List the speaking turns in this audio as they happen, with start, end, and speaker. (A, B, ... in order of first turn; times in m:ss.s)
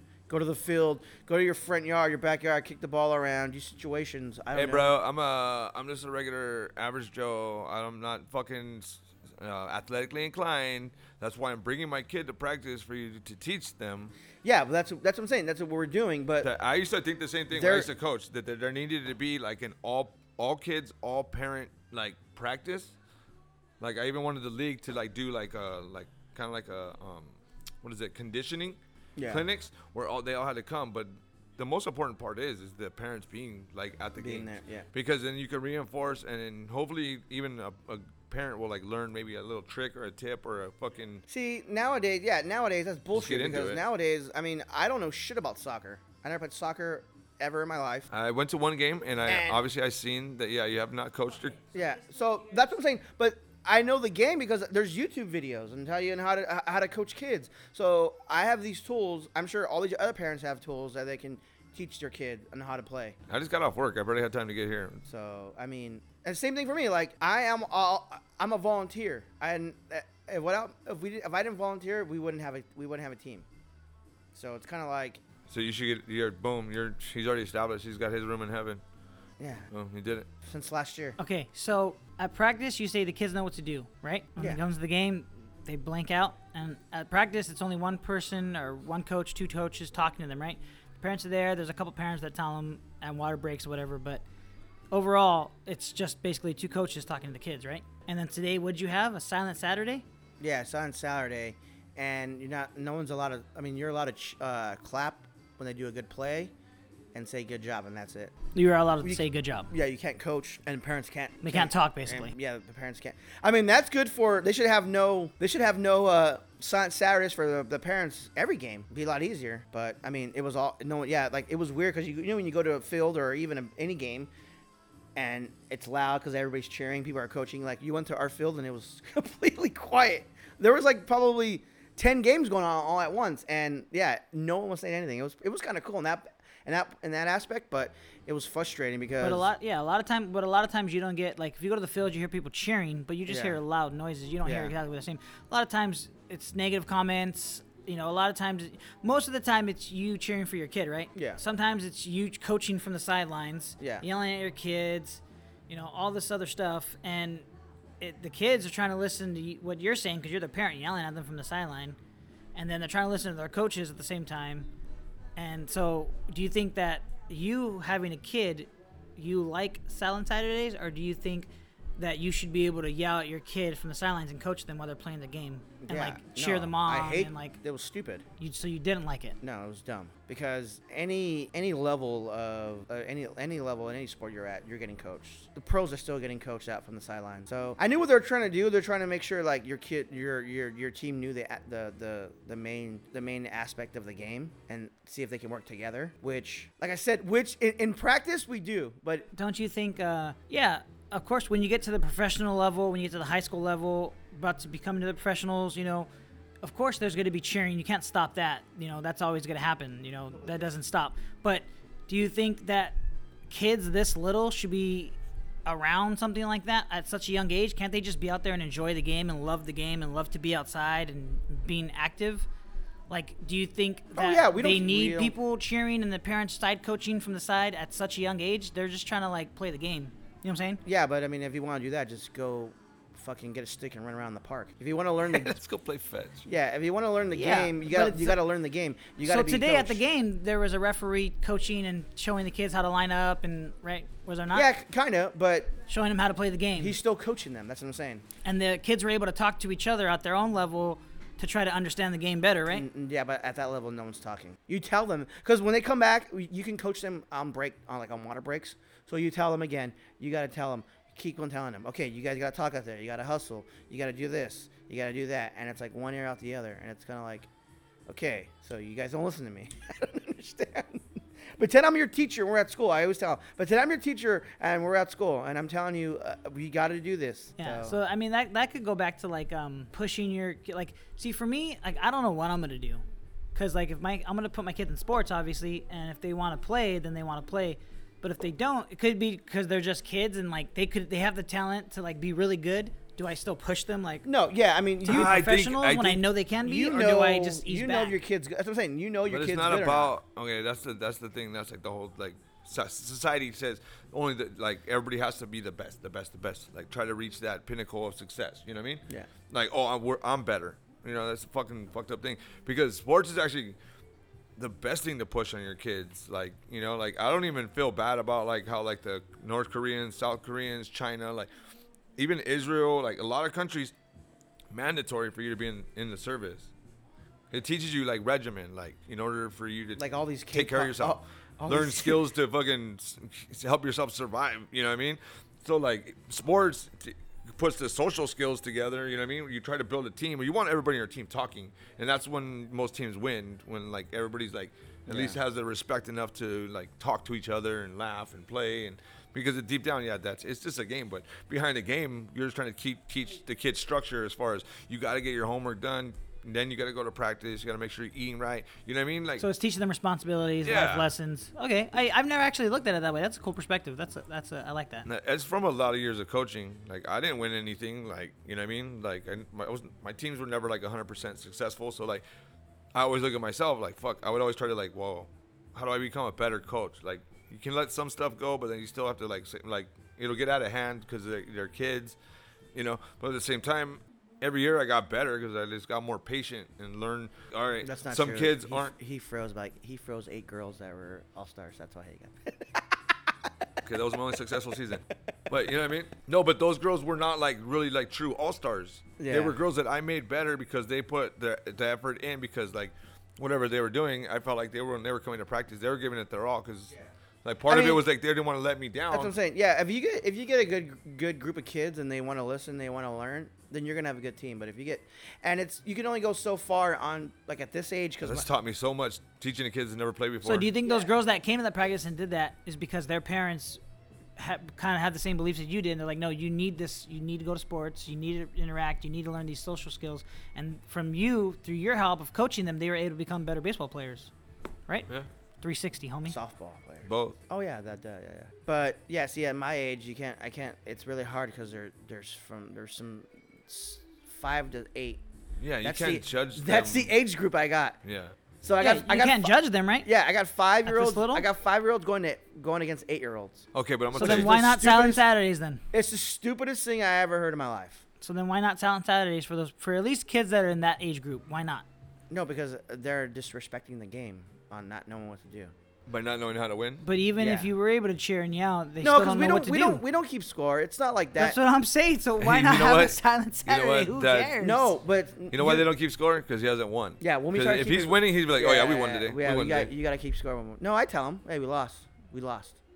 0:00.3-0:04.9 A
0:04.5-0:14.1 B
0:14.4-0:16.5 A
0:16.4-0:22.9 B
0:17.5-0:17.9 A
0:23.8-0:41.2 B
0:29.2-0:29.4 A
0:34.2-0:34.9 A
0:41.3-0:48.1 A
0:43.1-0:43.8 B
0:48.1-0:51.6 B
0:49.3-0:49.6 A
0:51.7-1:03.2 A
1:03.3-1:05.0 B
1:05.0-1:13.5 A
1:14.3-1:15.2 A
1:15.5-1:18.8 B
1:19.4-1:19.7 A
1:19.7-1:20.3 B
1:20.4-1:21.2 A
1:21.2-1:34.2 C
1:34.9-1:40.0 C
1:40.4-1:46.5 A
1:47.1-1:48.3 A
1:48.5-1:49.7 C
1:49.0-2:04.3 A
1:51.4-1:52.3 C
2:05.2-2:19.5 A
2:19.2-2:37.5 C
2:23.3-2:23.6 A
2:24.4-2:24.7 A
2:31.2-2:31.4 A
2:33.8-2:34.0 A
2:38.0-2:42.0 C
2:42.6-2:44.7 C
2:45.4-2:57.6 C
2:55.8-2:58.3 A
2:58.4-2:59.4 C
2:59.4-3:19.3 A
3:19.3-3:26.1 C
3:26.6-3:33.0 C
3:33.5-3:42.5 C
3:43.1-3:50.8 C
3:44.1-3:45.4 A
3:50.8-3:55.6 A
3:55.3-3:56.5 B
3:56.5-4:00.0 A
3:57.3-3:58.4 C
3:59.2-4:04.7 C
4:04.5-4:05.8 A
4:05.9-4:07.0 C
4:06.8-4:08.2 A
4:08.4-4:12.9 C
4:12.7-4:27.5 A
4:28.1-4:38.0 A
4:37.6-4:43.0 C
4:43.6-4:54.3 C
4:54.2-4:55.4 A
4:55.0-4:58.2 C
4:55.1-4:56.2 B
4:56.6-5:00.1 A
4:59.3-5:13.8 B
5:14.6-5:21.5 B
5:22.2-5:23.9 B
5:24.7-5:26.7 B
5:27.5-5:59.4 B
5:30.0-5:32.2 A
5:45.1-5:45.4 A
5:59.4-6:05.1 C
6:00.6-6:01.1 B
6:05.1-6:12.2 B
6:12.9-6:22.2 B
6:22.8-6:28.9 B
6:27.8-6:33.5 A
6:33.8-6:49.3 B
6:39.2-6:39.6 A
6:47.7-6:48.0 A
6:49.1-6:58.5 A
6:58.2-7:00.7 B
7:00.4-7:03.8 C
7:04.4-7:14.3 C
7:15.6-7:16.4 C
7:16.3-7:25.2 A
7:17.1-7:17.4 B
7:25.6-7:27.1 B
7:25.8-7:28.0 A
7:28.0-7:28.4 B
7:28.6-7:35.2 A
7:28.8-7:30.1 C
7:30.8-7:31.5 C
7:33.7-7:34.5 B
7:34.2-7:35.8 C
7:35.9-7:38.0 A
7:38.2-7:41.8 C
7:42.3-7:45.7 A
7:46.1-7:47.0 B
7:47.0-7:50.0 C
7:47.4-7:47.7 A
7:49.0-7:51.6 A
7:51.4-7:54.9 C
7:52.4-7:54.6 B
7:54.6-7:55.9 A
7:55.5-7:59.9 B
7:57.2-8:02.8 A